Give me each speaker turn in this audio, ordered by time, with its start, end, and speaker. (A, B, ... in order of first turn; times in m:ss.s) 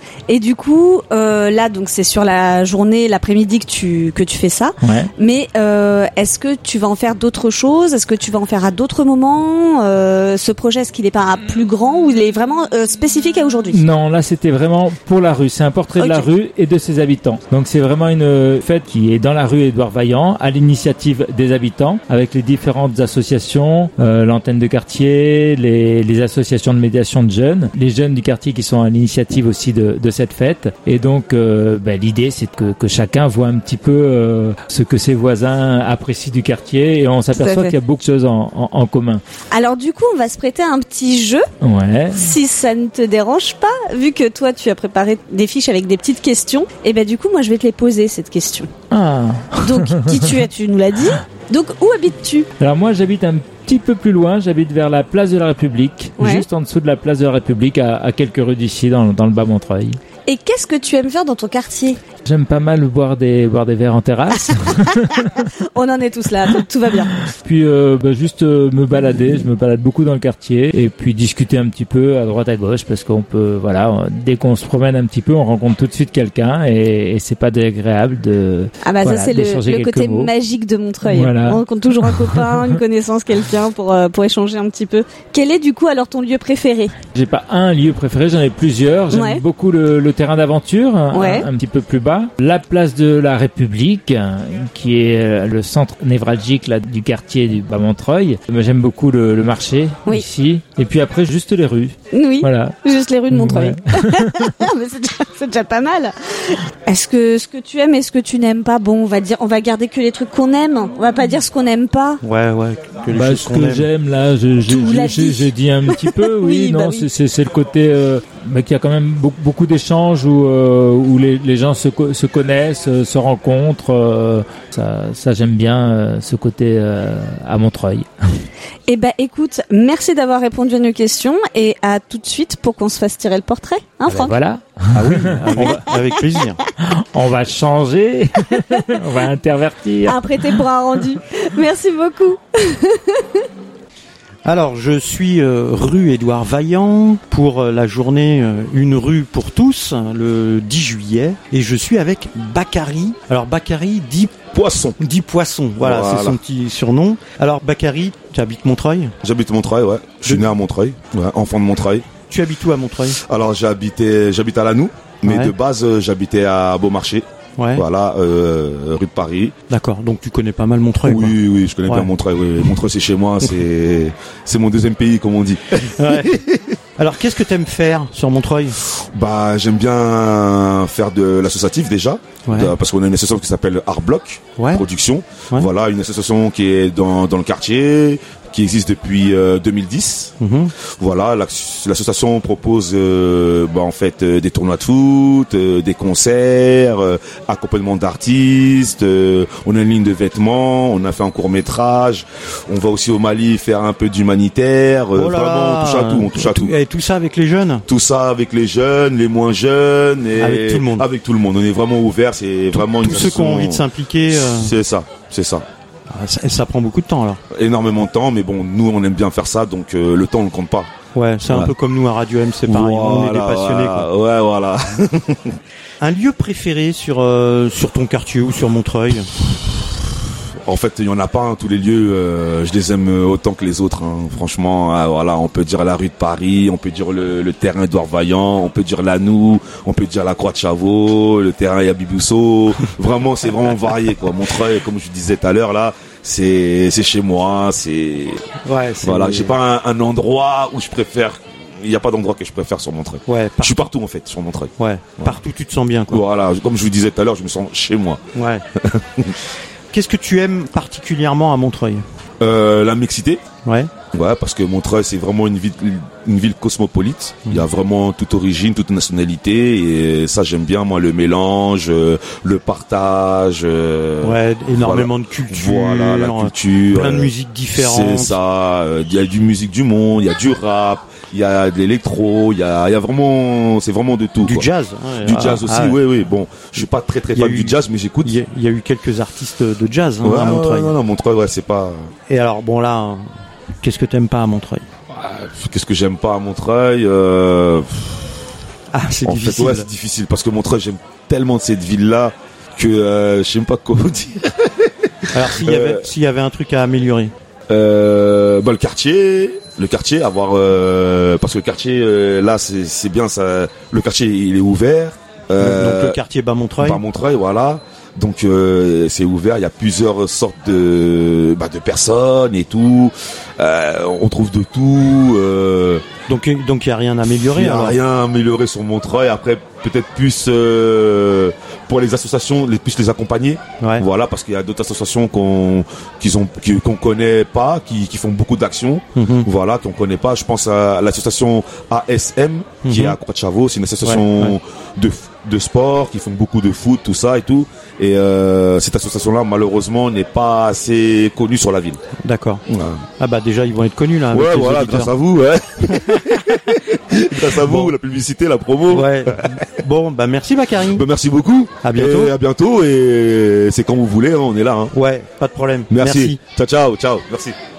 0:00.3-0:13.8 A
0:04.8-0:05.1 B
0:13.7-0:39.2 B
0:16.0-0:16.3 A
0:37.3-0:37.7 A
0:39.5-0:41.4 A
0:41.6-0:42.3 B
0:42.1-0:48.7 A
0:48.9-0:50.3 B
0:49.6-0:52.5 A
0:52.6-1:00.0 B
0:56.2-0:56.4 A
1:00.2-1:02.0 A
1:02.2-1:05.4 B
1:04.7-1:07.1 A
1:07.4-1:20.3 B
1:18.8-1:26.9 A
1:21.0-1:22.7 B
1:27.1-1:42.8 B
1:29.1-1:29.4 A
1:31.1-1:31.4 A
1:42.1-1:52.2 A
1:43.3-1:44.5 B
1:52.2-1:53.9 C
1:53.1-2:08.4 B
1:54.6-1:57.0 A
2:08.9-2:14.4 A
2:14.1-2:15.8 B
2:14.9-2:16.6 C
2:17.0-2:20.2 B
2:20.0-2:23.4 A
2:24.4-2:34.5 C
2:34.5-2:35.0 D
2:35.0-2:39.2 C
2:35.8-2:36.4 D
2:39.2-2:42.1 D
2:40.2-2:40.5 C
2:42.3-2:43.2 C
2:43.2-2:49.5 D
2:45.2-2:45.5 C
2:47.6-2:47.8 C
2:49.7-2:52.1 C
2:51.0-2:56.6 D
2:55.9-2:56.3 C
2:57.0-2:58.8 C
2:59.1-3:10.3 D
3:02.5-3:02.7 C
3:04.6-3:04.8 C
3:10.4-3:10.7 C
3:11.0-3:26.8 D
3:25.1-3:27.8 C
3:27.9-3:35.6 D
3:30.4-3:31.0 C
3:32.7-3:34.7 C
3:36.1-3:37.4 C
3:37.5-3:40.9 D
3:41.1-3:44.1 C
3:41.5-3:41.7 D
3:42.6-3:45.6 D
3:46.0-3:49.3 C
3:50.6-4:08.4 D
4:08.6-4:09.6 C
4:09.0-4:15.4 D
4:13.3-4:13.9 C
4:14.8-4:16.2 C
4:16.1-4:18.2 D
4:18.3-4:18.6 C
4:18.8-4:19.3 D
4:19.9-4:22.0 C
4:22.4-4:23.4 D
4:23.6-4:23.9 C
4:24.1-4:44.7 D
4:34.2-4:38.4 C
4:44.4-4:46.0 C
4:45.2-4:48.3 D
4:46.8-4:50.9 C
4:50.2-4:52.1 D
4:52.3-4:53.3 C
4:53.8-4:54.9 C
4:55.1-4:58.3 D
4:58.9-4:59.9 C
4:59.2-5:06.1 D
5:05.3-5:07.3 C
5:07.7-5:16.2 D
5:15.6-5:17.0 C
5:16.8-5:26.0 D
5:26.3-5:28.0 C
5:27.5-5:52.0 D
5:39.2-5:39.5 C
5:42.8-5:43.2 C
5:44.0-5:44.5 C
5:52.2-5:52.6 C
5:52.7-5:53.0 D
5:53.2-5:55.1 C
5:54.3-5:59.6 D
5:55.9-5:56.2 C
5:57.5-5:57.9 C
5:58.9-6:01.0 C
6:00.9-6:04.9 D
6:01.8-6:02.3 C
6:04.9-6:06.4 C
6:05.9-6:07.5 D